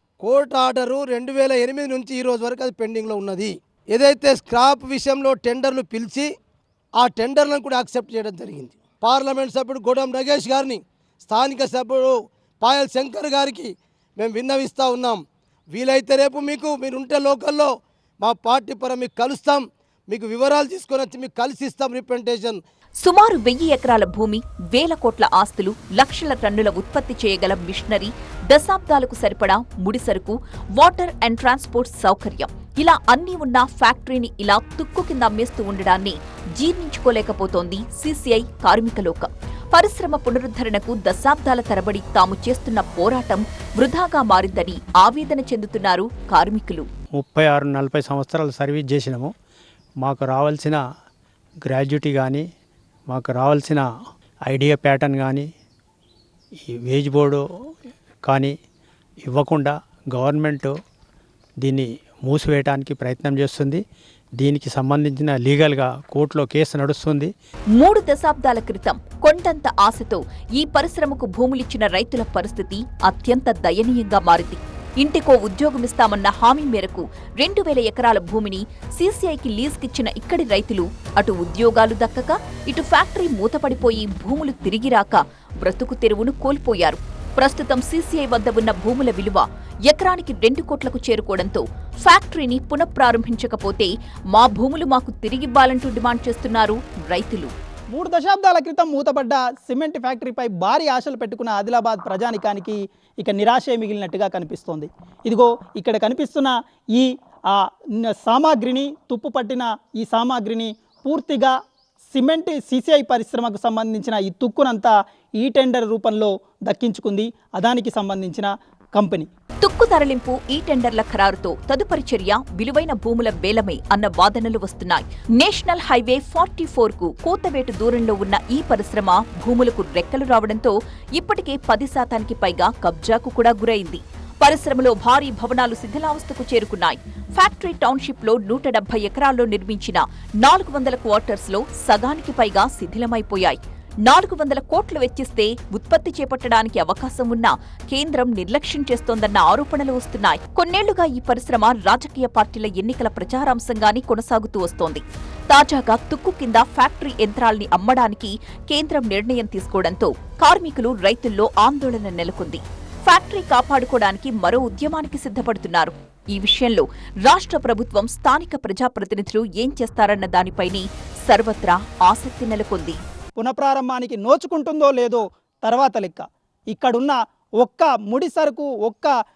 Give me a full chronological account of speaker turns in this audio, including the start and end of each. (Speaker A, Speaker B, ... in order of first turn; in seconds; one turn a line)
Speaker A: 0.2-6.3
Speaker A: 7.0-22.6
Speaker B: 23.0-46.9
Speaker C: 47.1-49.3
Speaker C: 50.0-50.8
Speaker C: 51.6-52.5
Speaker C: 53.1-53.8
Speaker C: 54.5-55.5
Speaker C: 56.7-57.4
Speaker C: 58.2-58.5
Speaker C: 59.2-60.8
Speaker C: 61.6-63.8
Speaker C: 64.4-67.3
Speaker B: 67.8-97.5
Speaker D: 97.9-107.1
Speaker D: 108.0-111.5
Speaker D: 112.1-119.3
Speaker B: 119.6-173.0
Speaker D: 173.4-179.1